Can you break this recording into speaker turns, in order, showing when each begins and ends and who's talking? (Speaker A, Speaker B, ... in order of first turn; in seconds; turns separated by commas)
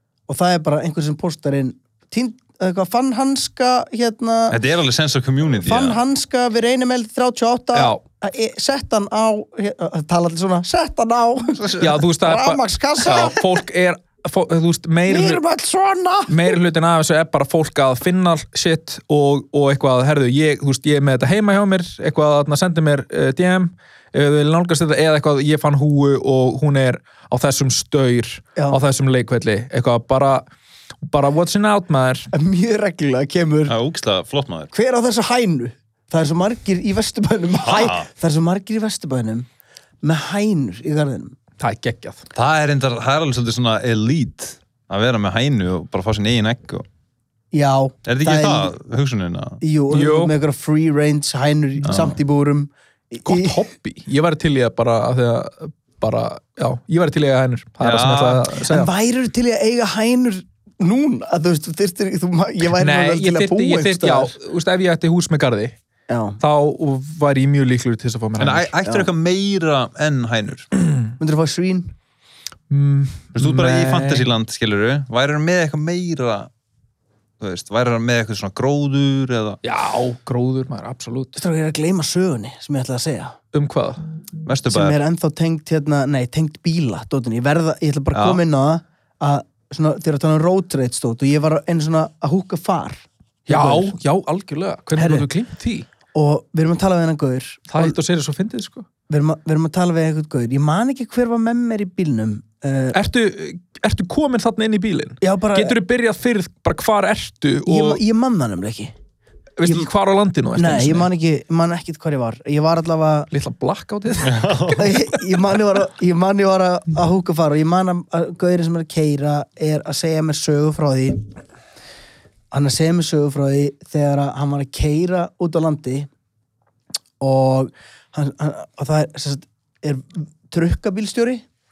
Speaker A: 0.3-4.6, Speaker B: 4.5-6.0, Speaker A: 5.6-13.5, Speaker C: 7.7-8.0, Speaker B: 11.6-11.9, Speaker C: 11.8-15.4, Speaker A: 15.1-16.6, Speaker C: 16.3-30.5, Speaker C: 31.1-32.3, Speaker A: 32.3-33.7, Speaker B: 33.7-34.7, Speaker A: 34.7-39.5, Speaker B: 37.6-38.1, Speaker A: 40.0-41.4, Speaker C: 41.6-42.2, Speaker B: 42.4-46.9, Speaker A: 47.5-48.7, Speaker B: 48.1-49.6, Speaker A: 49.6-53.6, Speaker C: 49.9-50.4, Speaker B: 51.9-52.2, Speaker C: 53.2-58.9, Speaker B: 57.8-58.5, Speaker A: 58.6-64.3, Speaker C: 62.8-65.8, Speaker A: 66.1-66.4, Speaker C: 66.4-68.7, Speaker B: 68.4-70.7, Speaker C: 70.8-71.1, Speaker A: 71.2-71.9, Speaker C: 72.7-74.3, Speaker B: 73.3-76.5, Speaker B: 77.4-79.6, Speaker C: 79.6-81.4, Speaker A: 81.4-83.4, Speaker C: 83.5-84.0, Speaker B: 84.5-85.0, Speaker A: 84.7-94.0, Speaker B: 88.1-88.4, Speaker C: 93.5-95.9, Speaker A: 95.0-95.3, Speaker A: 96.1-98.0, Speaker C: 97.7-98.9, Speaker A: 99.1-103.0, Speaker C: 102.9-108.0, Speaker A: 105.2-105.8, Speaker A: 107.7-108.9, Speaker C: 109.6-111.1, Speaker A: 110.6-113.3, Speaker C: 113.3-114.9, Speaker B: 114.2-115.0, Speaker A: 114.7-121.2, Speaker A: 122.5-126.1, Speaker A: 127.2-131.4